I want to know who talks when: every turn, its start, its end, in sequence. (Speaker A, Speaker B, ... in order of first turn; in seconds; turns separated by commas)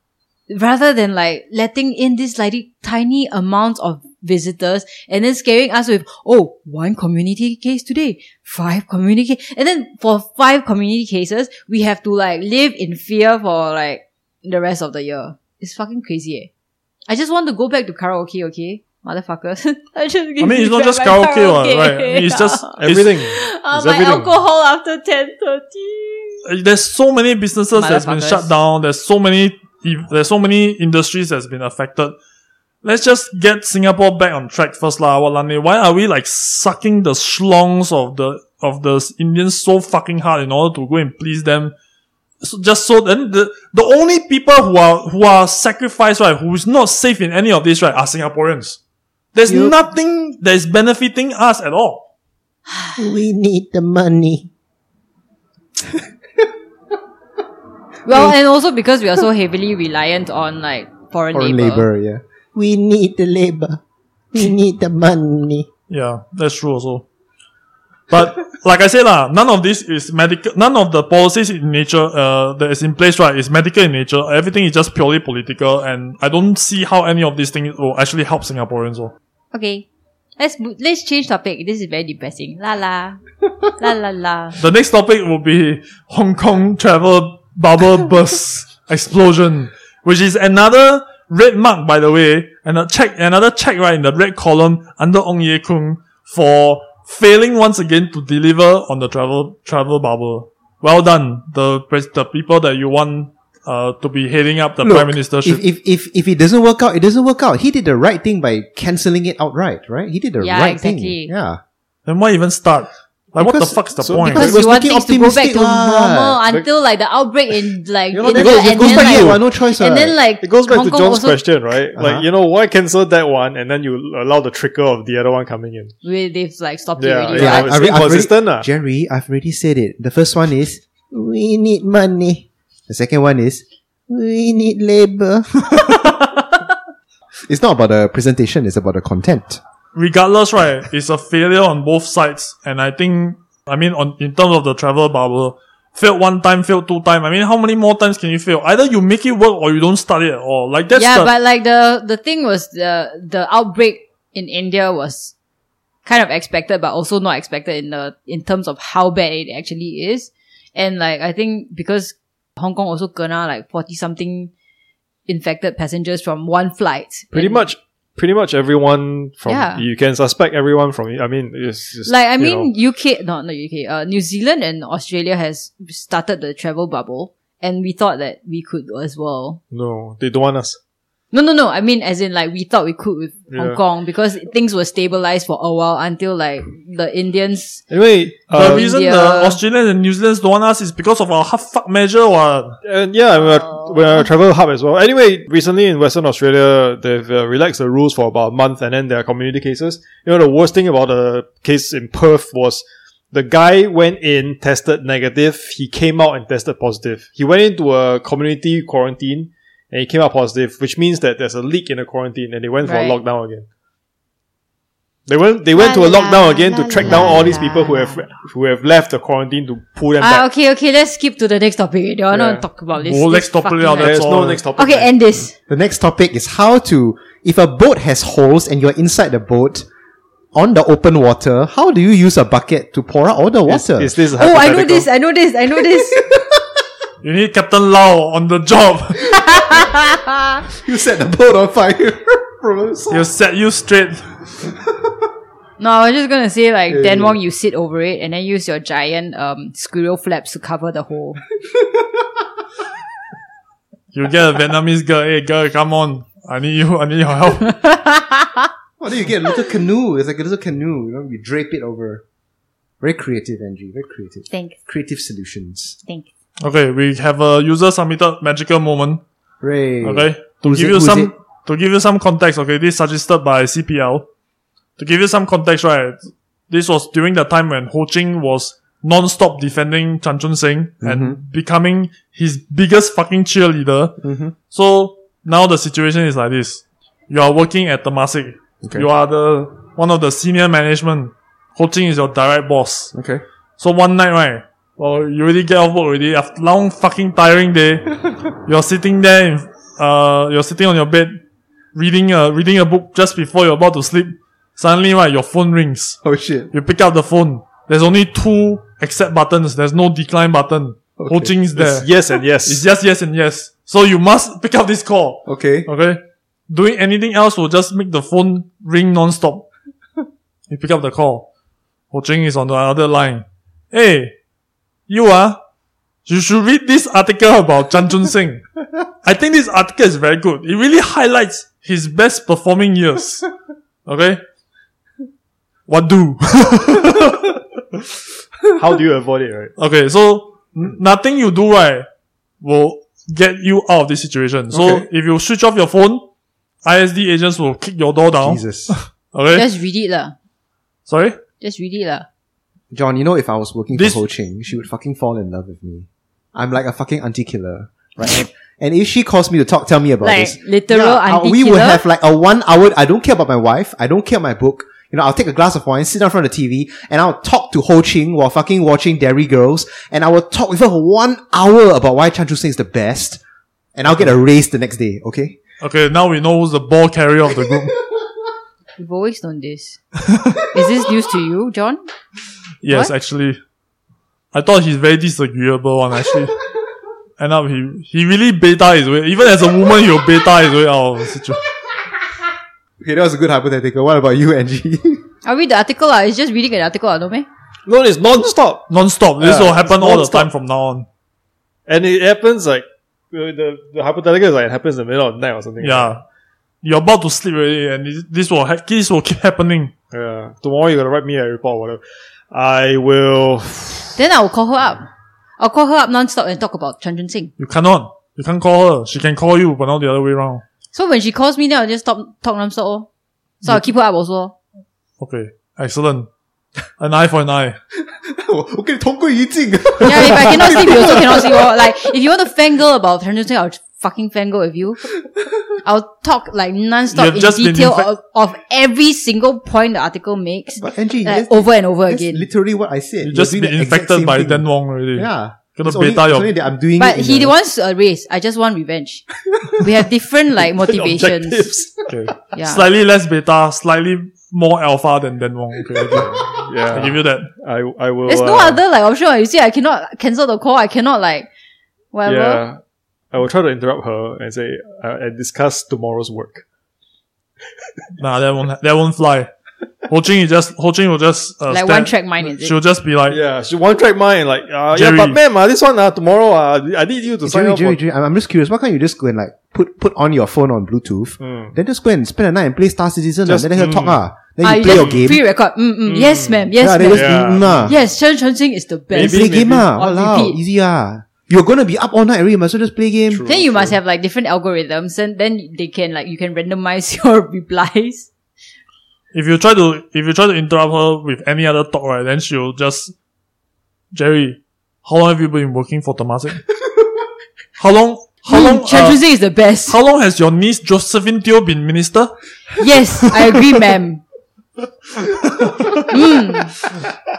Speaker A: 0.5-16.5, Speaker A: 17.1-26.4, Speaker B: 20.4-23.1, Speaker C: 22.8-24.3, Speaker B: 26.4-32.1, Speaker A: 27.7-28.5, Speaker B: 32.8-41.7, Speaker B: 42.4-48.8, Speaker B: 49.3-52.0, Speaker D: 53.0-54.5, Speaker D: 55.8-56.0, Speaker A: 58.0-61.9, Speaker D: 58.1-58.3, Speaker D: 61.3-63.8, Speaker D: 64.3-65.7, Speaker B: 65.9-67.0, Speaker B: 68.1-79.1, Speaker A: 79.5-79.9, Speaker A: 80.4-83.2, Speaker A: 83.8-84.6, Speaker B: 84.5-105.6, Speaker D: 104.8-111.6, Speaker A: 110.4-111.3, Speaker B: 112.0-114.5, Speaker D: 113.4-116.4, Speaker C: 114.0-114.5, Speaker A: 114.3-121.4, Speaker D: 118.1-120.2, Speaker C: 118.3-119.4, Speaker C: 120.4-125.9, Speaker D: 121.9-122.2, Speaker A: 126.0-127.7, Speaker C: 127.0-128.7, Speaker D: 127.3-135.9, Speaker D: 137.5-139.6, Speaker B: 139.9-151.3, Speaker A: 150.9-155.3, Speaker A: 156.1-164.5, Speaker A: 165.3-167.6, Speaker C: 167.3-172.7, Speaker A: 169.4-169.8, Speaker A: 172.1-179.6, Speaker C: 179.7-180.8, Speaker A: 181.3-187.8, Speaker C: 183.5-183.8, Speaker C: 187.9-188.9, Speaker B: 188.6-192.8, Speaker A: 188.6-189.6, Speaker C: 192.8-213.7, Speaker A: 212.8-213.2, Speaker C: 215.3-220.5, Speaker A: 215.7-218.1, Speaker A: 220.2-224.2, Speaker C: 222.3-222.6, Speaker B: 222.9-224.6, Speaker C: 224.0-225.1, Speaker A: 224.8-225.5, Speaker D: 225.7-229.9, Speaker D: 230.5-234.1, Speaker C: 233.7-235.1, Speaker A: 234.4-236.2, Speaker D: 236.1-236.6, Speaker B: 237.2-239.7, Speaker A: 239.7-240.3, Speaker D: 240.7-243.2, Speaker B: 243.1-244.4, Speaker A: 245.8-251.4, Speaker D: 246.9-247.4, Speaker D: 251.8-252.2, Speaker B: 254.1-257.8, Speaker A: 257.6-258.7, Speaker D: 259.0-262.2, Speaker D: 263.0-266.0, Speaker A: 264.5-264.8, Speaker B: 266.6-269.2, Speaker D: 269.6-271.3, Speaker B: 270.0-274.3, Speaker B: 275.0-293.1, Speaker D: 281.0-281.4, Speaker D: 284.2-284.5, Speaker D: 293.1-293.4, Speaker B: 293.8-301.4, Speaker B: 301.9-306.2, Speaker D: 306.2-306.7, Speaker B: 306.7-312.1, Speaker D: 311.2-311.5, Speaker C: 311.8-312.8, Speaker B: 312.6-319.7, Speaker D: 315.4-315.9, Speaker B: 320.7-321.5, Speaker B: 322.1-324.3, Speaker B: 325.1-325.6, Speaker B: 326.3-328.6, Speaker B: 329.2-333.4, Speaker B: 334.1-334.4, Speaker B: 335.9-338.0, Speaker C: 338.7-339.7, Speaker B: 339.8-342.1, Speaker B: 342.6-346.2, Speaker D: 344.7-345.1, Speaker B: 346.8-349.6, Speaker D: 348.4-348.9, Speaker A: 349.5-350.3, Speaker B: 351.1-351.4, Speaker A: 351.6-352.3, Speaker D: 352.9-373.4, Speaker B: 353.9-354.2, Speaker A: 360.2-362.0, Speaker D: 373.9-375.6, Speaker B: 375.8-377.9, Speaker A: 379.0-380.0, Speaker A: 380.7-382.0, Speaker B: 382.8-383.6, Speaker B: 384.5-386.6, Speaker B: 387.4-391.6, Speaker D: 393.0-395.2, Speaker A: 395.4-397.5, Speaker C: 397.9-398.9, Speaker B: 398.9-401.1, Speaker C: 399.4-400.5, Speaker C: 401.9-406.1, Speaker B: 405.8-406.2, Speaker B: 406.8-409.9, Speaker C: 410.1-414.2, Speaker A: 414.1-415.1, Speaker A: 415.6-417.5, Speaker B: 417.6-420.6, Speaker A: 420.9-423.1, Speaker A: 423.6-424.6, Speaker B: 425.2-426.3, Speaker B: 427.0-427.8, Speaker D: 428.0-431.9, Speaker A: 430.0-435.0, Speaker D: 435.4-435.7, Speaker A: 435.8-442.4, Speaker B: 437.1-438.1, Speaker D: 440.8-447.5, Speaker B: 443.2-446.5, Speaker A: 447.0-451.6, Speaker C: 450.7-452.1, Speaker B: 452.1-457.5, Speaker A: 452.5-452.8, Speaker C: 456.2-458.8, Speaker A: 458.3-461.5, Speaker A: 462.1-462.6, Speaker C: 462.3-462.8, Speaker C: 463.3-466.6, Speaker B: 468.2-469.5, Speaker B: 470.1-473.4, Speaker A: 471.7-472.7, Speaker C: 473.3-478.0, Speaker B: 474.9-475.4, Speaker D: 477.4-485.4, Speaker C: 481.4-481.7, Speaker C: 483.4-484.2, Speaker A: 484.6-490.6, Speaker C: 484.9-485.3, Speaker C: 486.1-487.9, Speaker D: 486.8-487.9, Speaker C: 489.1-489.9, Speaker D: 489.1-493.8, Speaker C: 493.3-493.9, Speaker A: 493.4-498.3, Speaker B: 499.3-503.1, Speaker B: 504.1-506.6, Speaker B: 507.8-509.2, Speaker A: 508.5-509.9, Speaker B: 509.9-512.3, Speaker A: 512.8-514.2, Speaker B: 515.4-516.0, Speaker A: 516.1-516.7